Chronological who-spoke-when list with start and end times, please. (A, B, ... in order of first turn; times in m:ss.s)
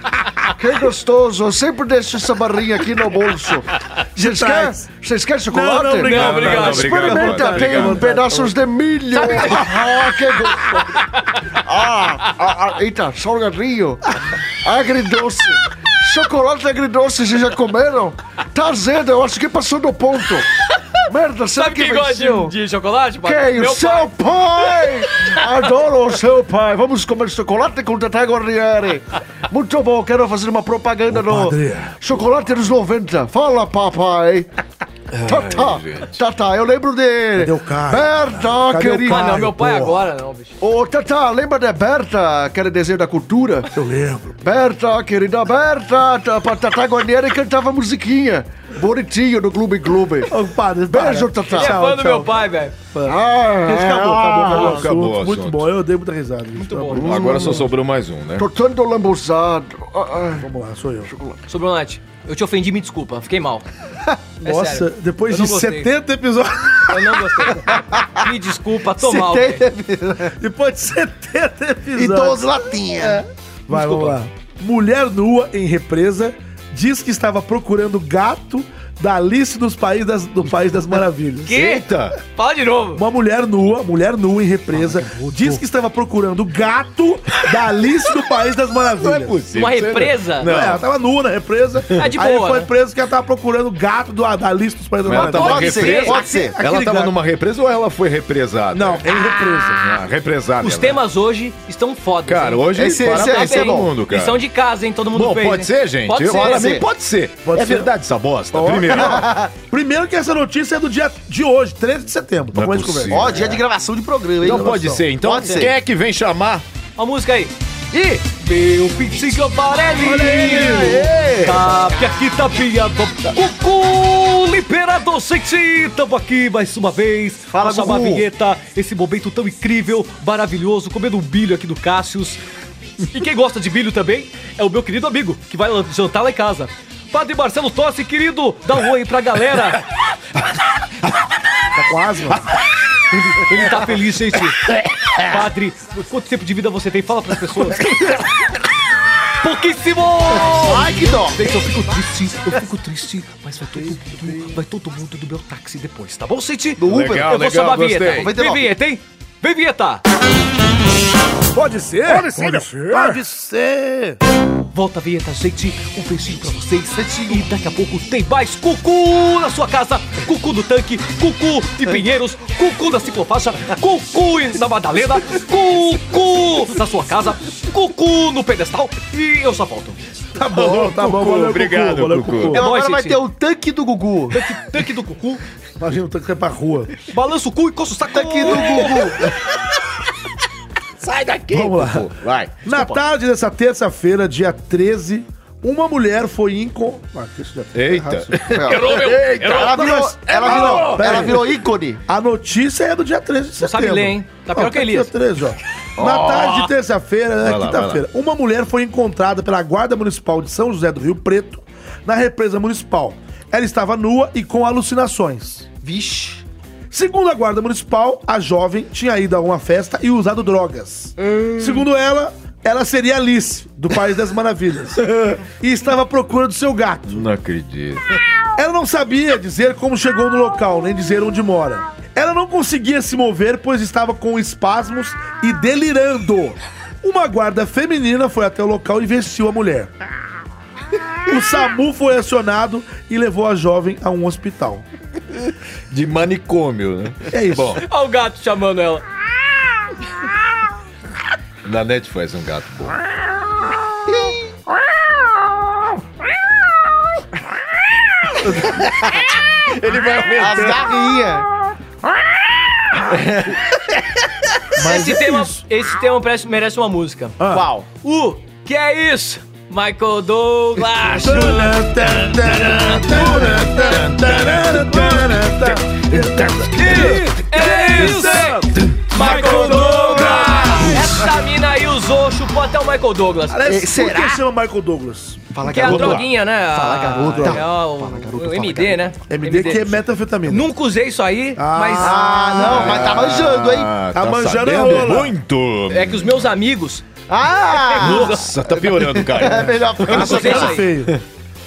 0:00.6-0:10.8 A
0:04.2-0:04.9 B
0:05.5-0:08.6 B
0:06.0-0:07.5 C
0:06.1-0:08.1 D
0:09.1-0:10.0 C
0:11.6-0:14.0 A
0:14.6-0:20.5 A
0:21.0-0:22.5 A
0:21.6-0:24.1 C
0:23.2-0:34.5 A
0:31.1-0:32.0 B
0:35.1-0:36.2 D
0:35.2-0:39.5 A
0:37.4-0:40.0 B
0:39.0-0:40.5 C
0:40.6-0:43.7 A
0:43.7-0:44.5 B
0:44.4-0:50.3 A
0:50.3-0:52.4 B
0:50.9-0:51.8 A
0:51.5-0:52.7 C
0:52.9-0:57.7 B
0:53.0-0:54.9 A
0:54.5-0:55.7 D
0:56.5-0:57.4 C
0:56.9-0:58.5 D
0:58.4-1:00.5 A
1:00.4-1:01.1 B
1:01.1-1:01.4 A
1:01.5-1:03.6 C
1:04.4-1:07.8 B
1:04.4-1:05.9 C
1:06.9-1:09.6 C
1:09.0-1:10.3 E
1:10.4-1:21.6 B
1:11.9-1:13.2 E
1:13.7-1:14.2 C
1:21.4-1:23.0 C
1:21.5-1:22.2 D
1:23.0-1:29.4 B
1:24.8-1:25.6 C
1:29.0-1:30.9 D
1:29.5-1:30.5 C
1:30.4-1:37.2 B
1:32.0-1:32.7 C
1:35.0-1:41.0 D
1:35.1-1:36.6 E
1:35.4-1:36.4 C
1:38.7-1:39.9 B
1:40.6-1:46.8 C
1:42.2-1:44.4 D
1:42.7-1:43.9 E
1:45.1-1:49.3 D
1:46.3-1:46.8 E
1:47.4-1:47.9 B
1:48.5-1:53.6 B
1:48.9-1:49.5 E
1:52.5-1:53.6 D
1:53.1-1:55.7 E
1:54.4-1:56.6 D
1:54.4-1:54.9 B
1:57.0-2:12.4 C
2:00.0-2:01.5 B
2:00.7-2:01.1 E
2:07.5-2:08.2 E
2:13.1-2:19.8 C
2:21.8-2:22.4 B
2:23.3-2:24.6 C
2:25.2-2:28.2 C
2:29.4-2:40.0 C
2:30.5-2:31.4 E
2:33.8-2:34.5 B
2:36.8-2:38.3 D
2:36.8-2:37.3 E
2:38.1-2:38.7 E
2:41.5-2:44.2 B
2:42.1-2:43.2 D
2:44.7-3:00.0 C
2:46.9-2:47.4 E
3:00.4-3:02.6 B
3:00.5-3:02.6 D
3:02.5-3:04.4 E
3:02.5-3:03.2 C
3:04.3-3:05.4 C
3:05.8-3:06.9 B
3:07.1-3:09.1 C
3:08.1-3:09.3 E
3:11.0-3:12.6 D
3:11.5-3:12.1 B
3:12.6-3:19.0 B
3:12.7-3:13.0 C
3:17.7-3:21.4 D
3:18.5-3:22.0 E
3:18.7-3:19.7 C
3:19.5-3:21.5 B
3:22.1-3:35.7 B
3:23.6-3:25.1 C
3:26.0-3:26.3 D
3:26.0-3:26.5 E
3:27.4-3:28.0 D
3:35.8-3:36.4 E
3:36.9-3:45.1 B
3:41.2-3:41.8 D
3:45.0-3:45.4 D
3:45.6-3:47.2 B
3:47.1-3:48.0 D
3:48.6-3:59.9 B
4:01.3-4:04.8 B
4:05.9-4:07.8 D
4:07.3-4:07.8 B
4:07.8-4:09.0 C
4:11.6-4:13.0 D
4:14.1-4:14.4 E
4:19.6-4:20.8 D
4:20.4-4:21.5 E
4:24.8-4:25.6 B
4:24.8-4:27.4 C
4:27.4-4:27.6 B
4:27.5-4:27.8 E
4:28.0-4:31.8 C
4:31.2-4:41.2 B
4:33.1-4:35.6 D
4:36.7-4:43.6 C
4:36.8-4:40.5 D
4:43.5-4:45.5 B
4:43.6-4:44.4 E
4:45.5-4:49.0 E
4:45.6-4:52.2 C
4:45.8-4:46.3 D
4:47.3-4:47.6 B
4:49.3-4:50.7 B
4:51.6-4:53.3 B
4:52.0-4:53.9 E
4:52.6-4:56.4 D
4:54.1-4:55.4 B
4:55.9-4:57.0 C
4:57.3-5:00.8 E
4:57.7-4:58.5 C
4:57.9-5:01.2 D
5:00.1-5:01.2 B
5:00.1-5:00.8 C